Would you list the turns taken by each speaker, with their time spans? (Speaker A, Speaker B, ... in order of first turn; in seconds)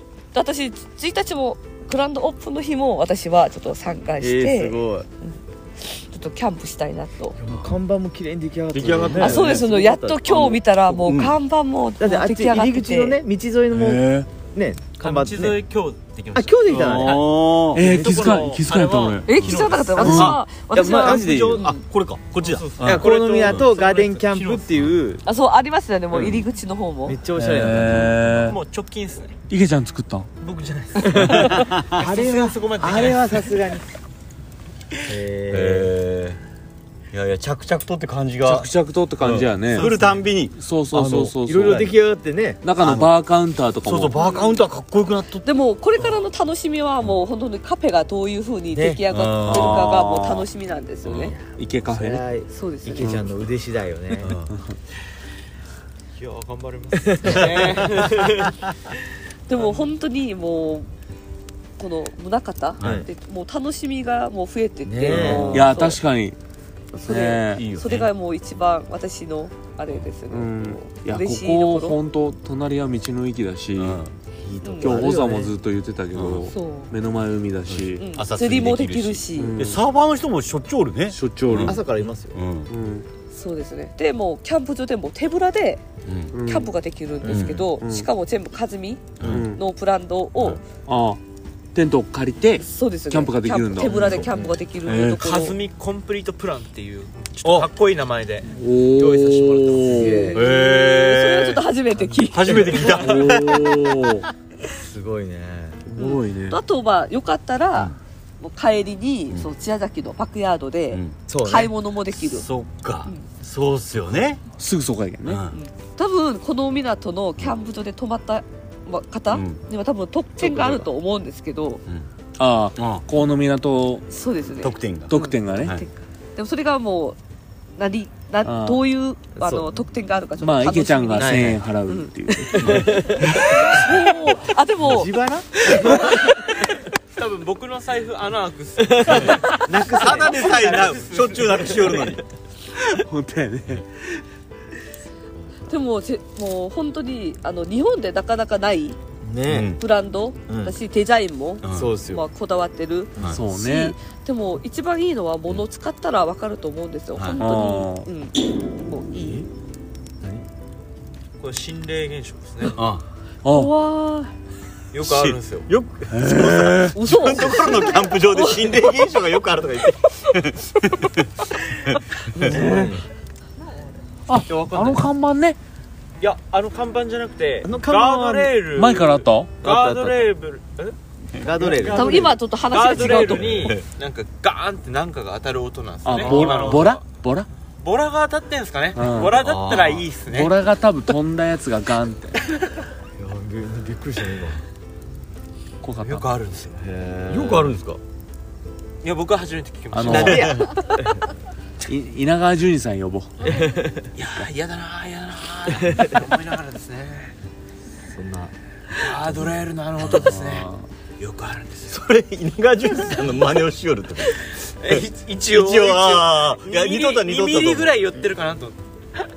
Speaker A: 0.3-7.4, 9.2-13.2, 19.2-21.8, 25.2-27.2, 44.1-44.6, 45.4-51.4, 52.5-53.2, 59.5-60.9, 61.8-66.0, 66.9-72.0, 74.6-75.1, 76.5-76.9, 78.0-79.6, 83.3-85.8, 86.3-90.6, 92.6-95.5, 100.1-103.2, 106.0-112.5, 115.5-121.8, 124.1-127.2, 127.8-136.6, 145.7-149.0, 149.8-159.4, 163.4-164.3, 166.9-169.2, 169.8-170.4, 181.9-183.7
Speaker B: 4.2-5.1, 7.4-11.0, 12.0-15.6, 16.3-17.2, 20.0-21.7, 22.8-25.2, 27.1-28.6, 31.1-33.8, 35.0-35.9, 41.4-42.6, 48.7-49.0, 51.1-54.3, 57.0-58.4, 62.8-63.1, 64.8-65.7, 74.4-75.5, 81.5-82.4, 87.2-87.6, 93.8-94.6, 99.8-100.4, 104.7-105.8, 111.3-111.7, 129.3-129.8, 131.1-131.6, 132.6-133.4, 134.8-136.2, 138.8-141.0, 149.2-149.8, 150.5-150.8, 151.6-152.2, 172.4-173.0, 177.6-178.5, 179.6-180.2, 181.4-182.4, 186.2-186.6, 193.2-194.6, 196.8-197.8, 200.0-201.1, 203.5-204.0, 205.8-206.2, 208.0-208.5
Speaker C: 8.7-9.6, 11.0-11.4, 16.6-17.9, 19.4-23.7, 26.1-26.4, 27.8-28.1, 31.1-32.0, 35.5-36.4, 37.1-41.9, 42.8-43.1, 43.8-45.5, 49.1-50.0, 51.0-51.4, 54.2-54.5, 62.8-63.1, 65.0-65.7, 67.5-68.1, 73.8-74.1, 76.1-76.5, 77.7-82.7, 86.0-86.3, 87.2-87.6, 89.2-89.5, 100.3-101.6, 102.2-104.0, 110.9-111.2, 112.1-114.4, 115.2-115.5, 119.3-119.6, 120.4-120.8, 122.8-123.0, 124.6-125.8, 139.1-142.2, 149.5-149.8, 151.6-151.9, 157.1-157.4, 162.7-163.1, 165.0-171.3, 171.9-172.5, 181.3-182.1, 182.9-183.8, 186.2-186.8, 189.3-190.1, 197.3-198.0, 200.1-200.7, 211.9-217.9
Speaker D: 13.7-14.3, 17.7-19.4, 20.0-20.4, 27.3-28.6, 29.5-30.3, 38.4-40.0, 40.5-41.9, 42.6-44.2, 49.5-50.5, 51.5-52.2, 54.5-54.8, 65.2-66.3, 67.0-67.6, 70.3-74.0, 74.8-78.1, 79.3-79.8, 81.1-81.8, 82.7-83.0, 86.3-86.7, 87.7-88.1, 89.2-89.6, 90.7-91.2, 91.7-94.2, 94.8-95.2, 98.4-100.3, 102.7-104.3, 105.8-106.6, 114.5-115.4, 122.4-124.1, 125.1-125.8, 128.4-128.8, 130.4-134.0, 142.8-144.2, 153.2-153.9, 157.4-158.1, 163.4-163.7, 166.1-167.5, 172.4-172.9, 174.3-175.6, 178.7-179.6, 186.0-187.5, 188.9-189.3, 190.2-192.5, 195.8-196.3, 199.9-200.6, 201.8-203.6, 210.1-210.8
Speaker E: 15.0-20.3, 22.4-24.9, 28.4-29.4, 30.4-33.5, 39.8-40.2, 56.1-58.6, 59.5-59.9, 95.2-100.2, 137.1-142.2, 161.4-162.8, 164.9-165.7, 174.4-175.1, 176.2-187.1, 187.8-190.6, 196.0-196.8, 199.0-200.7, 204.1-207.3, 208.9-210.7, 211.2-212.1, 214.4-218.8